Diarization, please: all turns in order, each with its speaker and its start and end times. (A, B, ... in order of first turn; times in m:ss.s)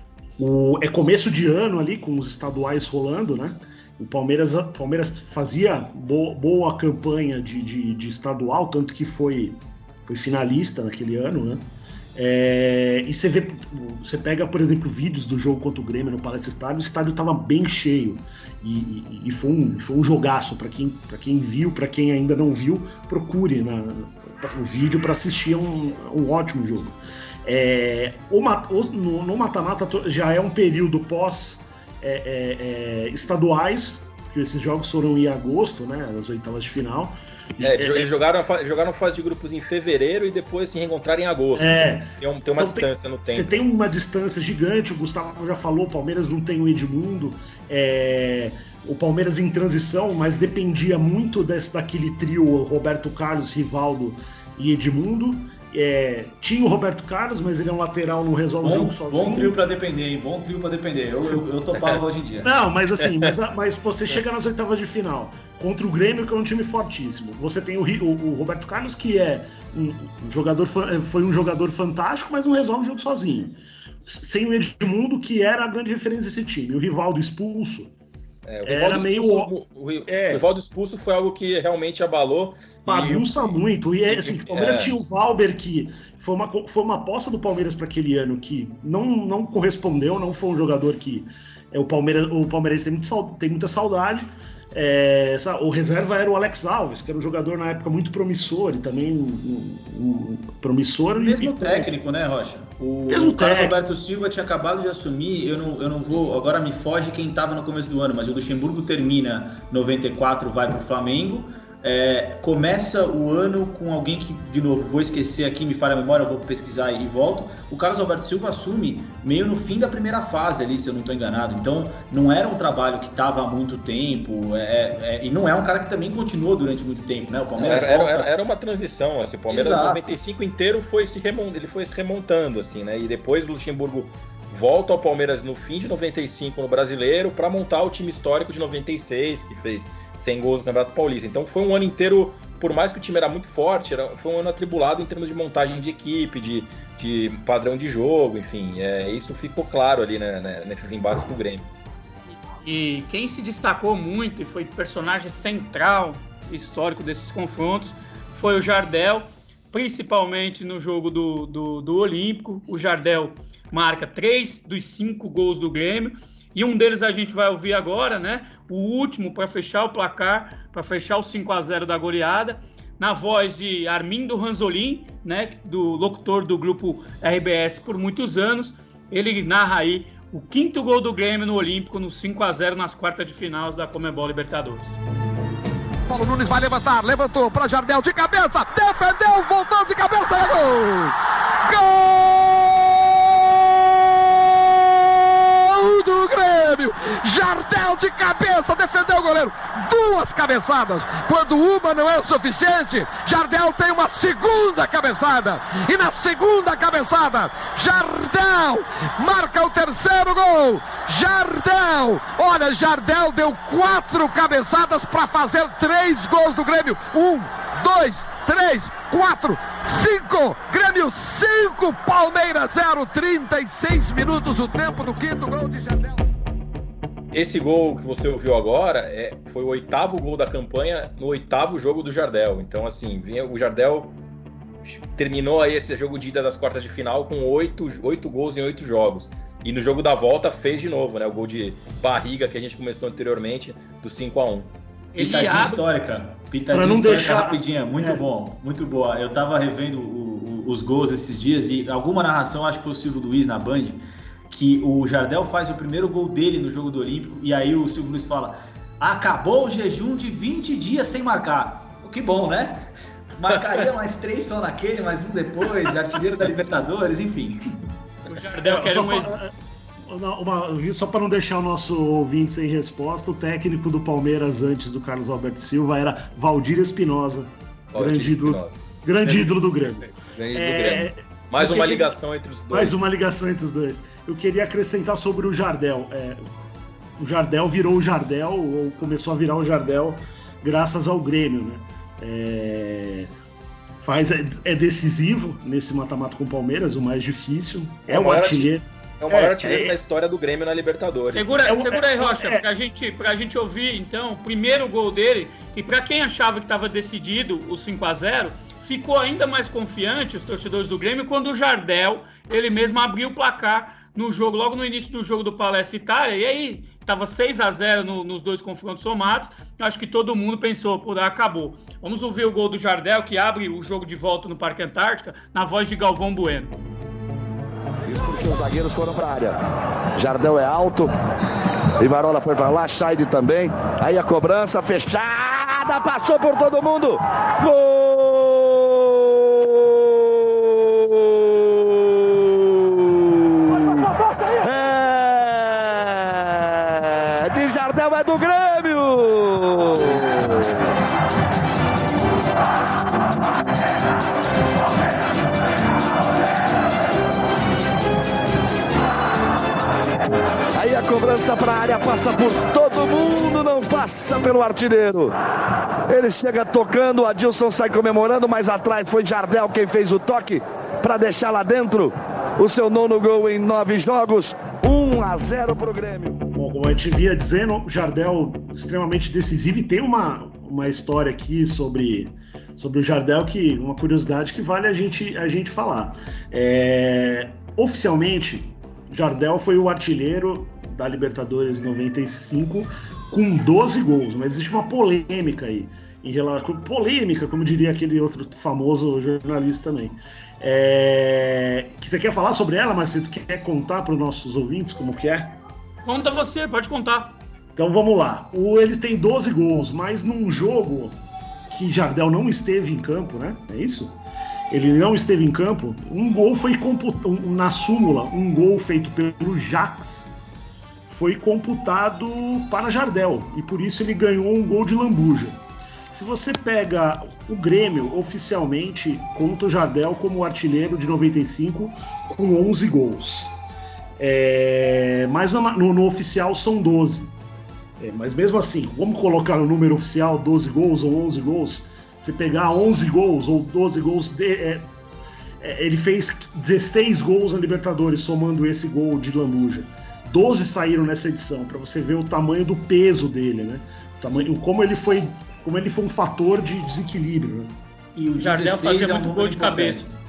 0:00.4-0:38.1 A
0:37.6-0:43.6 B
0:41.5-0:59.6 A
0:58.6-1:02.5 C
1:02.4-1:17.9 A
1:18.5-1:23.3 B
1:18.6-1:19.5 A
1:20.1-1:20.4 A
1:22.9-1:41.9 A
1:24.1-1:25.0 B
1:41.2-2:08.3 C
1:43.1-1:43.8 A
2:07.6-2:31.7 B
2:09.5-2:10.1 C
2:32.3-3:05.0 D
3:06.1-3:11.1 E
3:11.6-3:46.2 E
3:47.3-3:54.2 B
3:54.9-4:04.7 B
4:05.1-4:05.8 D
4:05.2-4:14.0 C
4:06.7-4:08.2 A
4:14.5-4:27.6 C
4:28.3-4:29.4 D
4:28.6-4:29.5 A
4:30.0-4:42.2 A
4:37.9-4:43.0 B
4:42.7-4:46.4 A
4:47.2-4:53.3 A
4:54.0-5:00.0 A
4:58.1-5:01.6 B
5:01.3-5:26.7 D
5:01.7-5:02.6 A
5:28.1-5:29.6 F
5:30.2-5:31.1 F
5:32.0-5:39.9 F
5:40.6-5:44.0 F
5:44.6-5:50.7 F
6:00.8-6:05.4 F
6:06.1-6:16.4 F
6:16.6-6:45.6 A
6:46.0-6:47.4 D
6:47.8-6:54.2 A
6:54.7-7:00.3 A
7:01.1-7:13.6 A
7:14.2-7:17.3 A
7:18.0-7:24.9 A
7:25.6-7:37.7 A
7:38.2-7:40.1 C
7:38.4-7:40.0 D